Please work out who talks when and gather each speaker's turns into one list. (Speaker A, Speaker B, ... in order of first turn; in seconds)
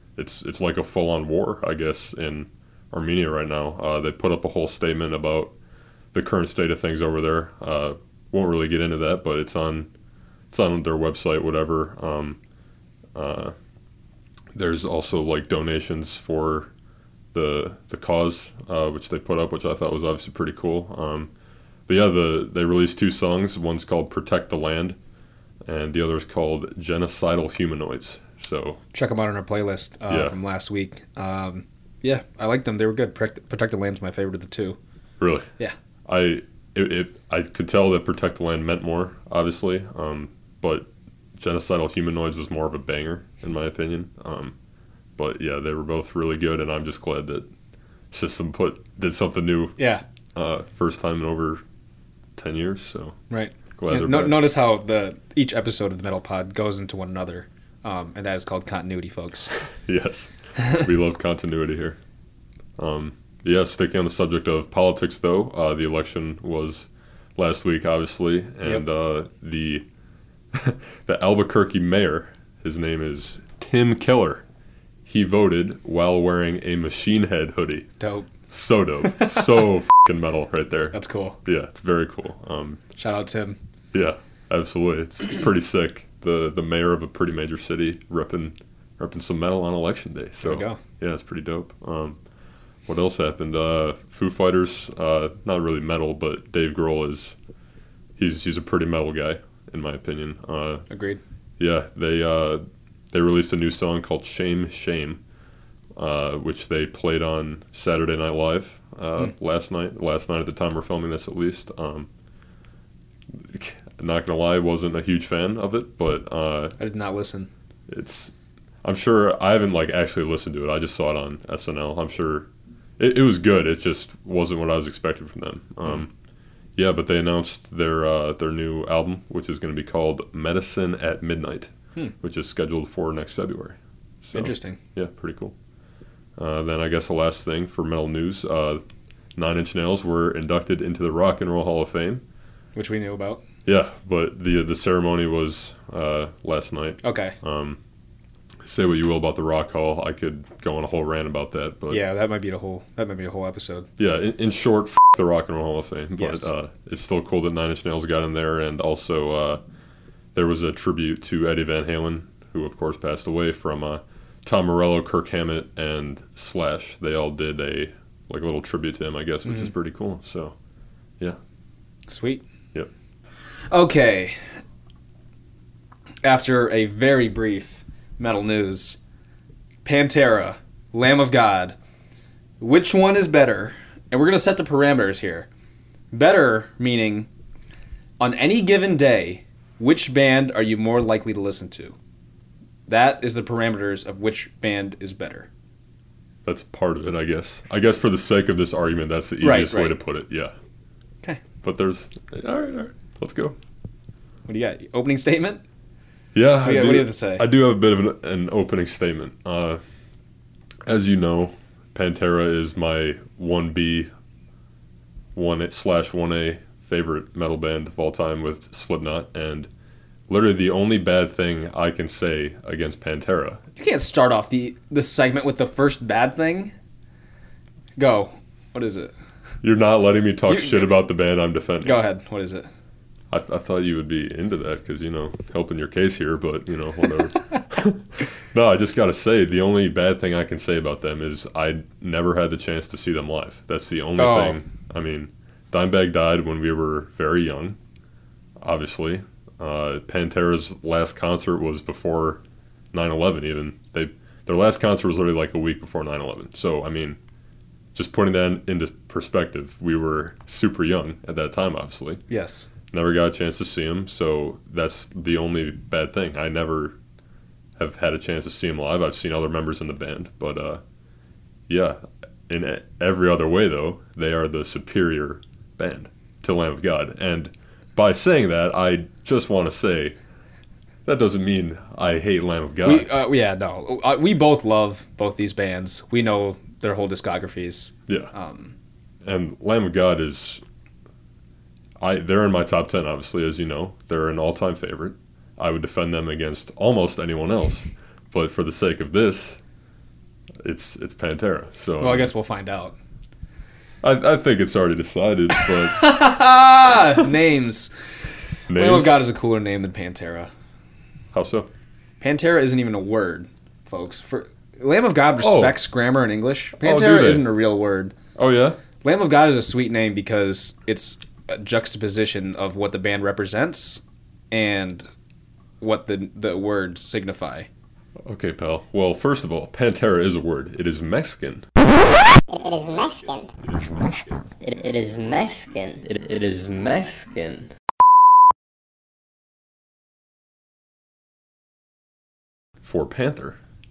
Speaker A: 0.1-5.5, 6.1-9.9, 10.5-12.4, 13.1-13.5, 14.5-16.7, 17.3-21.3, 21.9-25.0, 25.6-28.8, 30.1-30.3, 35.2-35.5, 36.0-44.5, 45.2-47.5, 48.1-49.8, 50.3-51.6, 52.4-53.2, 53.7-54.4, 59.9-62.0, 62.8-69.8, 70.5-74.4, 75.0-77.9, 78.5-82.8, 83.9-92.2, 92.9-97.3, 98.2-100.8, 101.6-105.2, 106.0-112.1, 113.3-116.8, 117.9-122.5, 123.0-126.1, 126.8-135.5, 136.4-138.8, 139.3-142.2, 143.6-147.8, 148.6-152.0, 154.0-159.6, 160.3-170.6, 196.4-200.5, 201.6-203.6, 206.3-209.8, 210.8-214.1, 215.3-219.7, 220.3-223.6, 229.6-232.0, 233.3-247.8, 248.6-257.2, 257.9-262.2, 262.9-267.0, 267.8-270.8, 271.7-280.1, 281.0-283.1, 288.1-288.3, 289.2-290.6, 292.0-299.6, 300.6-302.3, 304.0-306.1, 308.7-309.2, 311.3-311.7, 315.4-315.8, 316.8-317.5, 318.4-318.8, 328.2-331.6, 333.7-334.0, 342.8-343.6
Speaker B: 28.9-34.8, 49.8-50.0, 53.3-59.5, 78.0-78.3, 79.0-79.6, 80.9-81.4, 83.0-83.6, 90.4-90.8, 100.9-101.2, 116.8-117.5, 134.3-134.8, 142.7-143.4, 147.0-147.4, 151.9-153.9, 156.2-156.5, 169.4-169.7, 172.1-172.4, 173.7-174.4, 176.2-179.0, 179.8-181.8, 182.6-185.5, 186.1-187.3, 188.2-191.9, 192.9-195.5, 199.4-200.0, 204.4-205.6, 206.6-207.4, 223.8-226.7, 227.9-229.1, 230.5-230.9, 231.8-232.7, 244.2-244.6, 262.3-262.7, 282.8-288.7, 302.0-302.9, 305.6-308.2, 308.7-310.5, 312.2-318.1, 319.0-325.1, 325.8-327.7
Speaker C: 332.5-333.5, 334.6-337.7